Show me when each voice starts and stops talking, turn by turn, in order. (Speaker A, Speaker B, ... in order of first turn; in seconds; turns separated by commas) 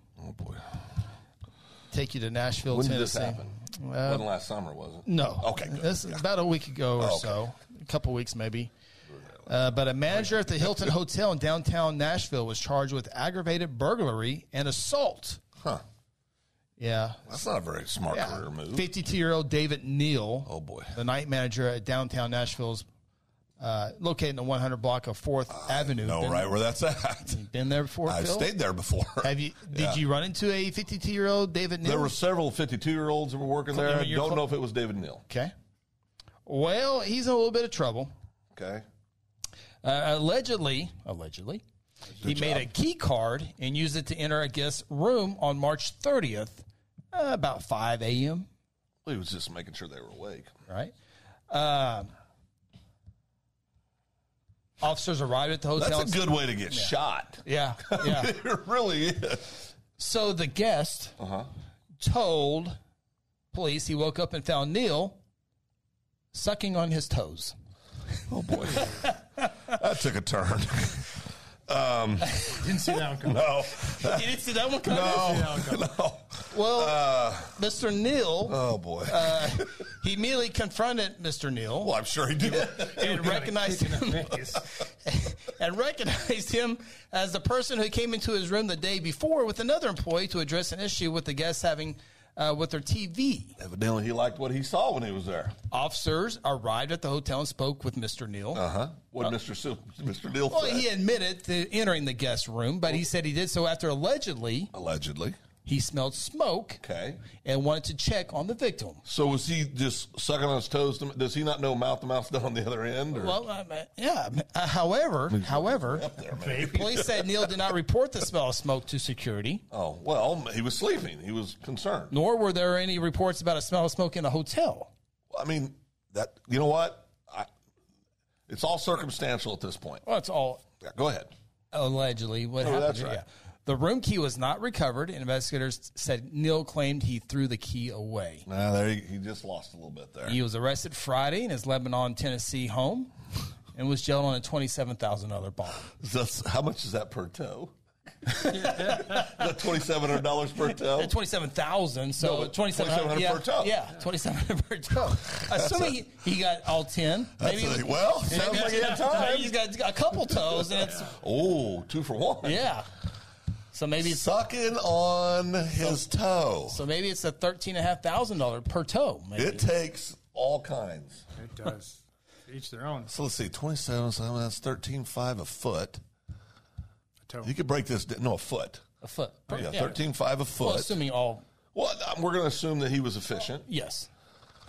Speaker A: 0.2-0.7, Speaker B: 1.9-4.3, Speaker A: 2.7-6.2, Speaker B: 5.0-8.7, Speaker A: 7.0-7.4, Speaker B: 9.5-15.4, Speaker B: 16.8-17.2, Speaker A: 17.3-18.9, Speaker B: 18.1-22.9, Speaker A: 20.4-20.9, Speaker B: 23.6-26.6, Speaker A: 25.5-27.4, Speaker B: 27.2-28.5, Speaker A: 28.0-30.0, Speaker B: 29.2-32.1, Speaker A: 31.8-35.2, Speaker B: 33.7-34.4, Speaker B: 35.3-35.5, Speaker B: 36.5-38.1, Speaker A: 38.5-38.8, Speaker B: 39.8-41.6, Speaker A: 42.2-42.7, Speaker B: 42.2-48.5, Speaker A: 49.0-50.5, Speaker B: 50.7-50.9, Speaker B: 51.5-52.1, Speaker B: 54.8-56.9, Speaker A: 55.8-59.6, Speaker B: 57.4-58.3, Speaker B: 60.0-61.2, Speaker A: 61.2-61.5, Speaker B: 62.0-62.8, Speaker B: 63.5-65.2, Speaker B: 66.3-67.5, Speaker A: 68.3-77.6, Speaker B: 68.5-69.6, Speaker B: 72.3-72.9, Speaker C: 72.6-73.5, Speaker B: 73.8-75.5, Speaker C: 75.2-75.9, Speaker B: 76.5-81.9, Speaker A: 78.5-79.8, Speaker A: 81.8-83.5, Speaker B: 82.5-93.6, Speaker C: 83.0-84.6, Speaker A: 93.6-95.5, Speaker B: 95.7-98.6, Speaker A: 98.5-100.9, Speaker B: 100.5-104.7, Speaker A: 104.7-105.4, Speaker B: 105.7-106.8, Speaker A: 106.8-107.2, Speaker B: 107.3-109.0, Speaker A: 109.1-113.4, Speaker B: 113.1-119.6, Speaker A: 115.3-117.5, Speaker C: 116.4-116.9, Speaker A: 119.7-122.1, Speaker B: 122.1-124.9, Speaker A: 125.3-127.5, Speaker A: 128.5-130.0, Speaker B: 130.1-130.6, Speaker A: 130.8-131.3, Speaker B: 131.7-138.5, Speaker A: 132.6-133.2, Speaker A: 138.5-140.4, Speaker B: 140.3-143.1, Speaker B: 143.7-145.9, Speaker A: 146.0-147.7, Speaker B: 148.3-149.3, Speaker C: 148.5-149.2, Speaker A: 148.6-151.2, Speaker B: 150.7-161.1, Speaker A: 152.2-153.8, Speaker A: 155.3-155.9, Speaker A: 157.4-159.6, Speaker C: 158.3-159.2, Speaker A: 160.5-162.7, Speaker B: 162.4-162.9, Speaker B: 163.7-164.3, Speaker A: 164.0-166.8, Speaker B: 166.7-169.7, Speaker A: 169.3-171.2, Speaker C: 171.3-173.1, Speaker A: 173.1-176.0, Speaker C: 177.2-177.5, Speaker A: 177.4-178.8, Speaker B: 179.0-180.0, Speaker A: 179.5-181.0, Speaker B: 180.6-181.4, Speaker A: 181.7-183.7, Speaker B: 183.7-184.1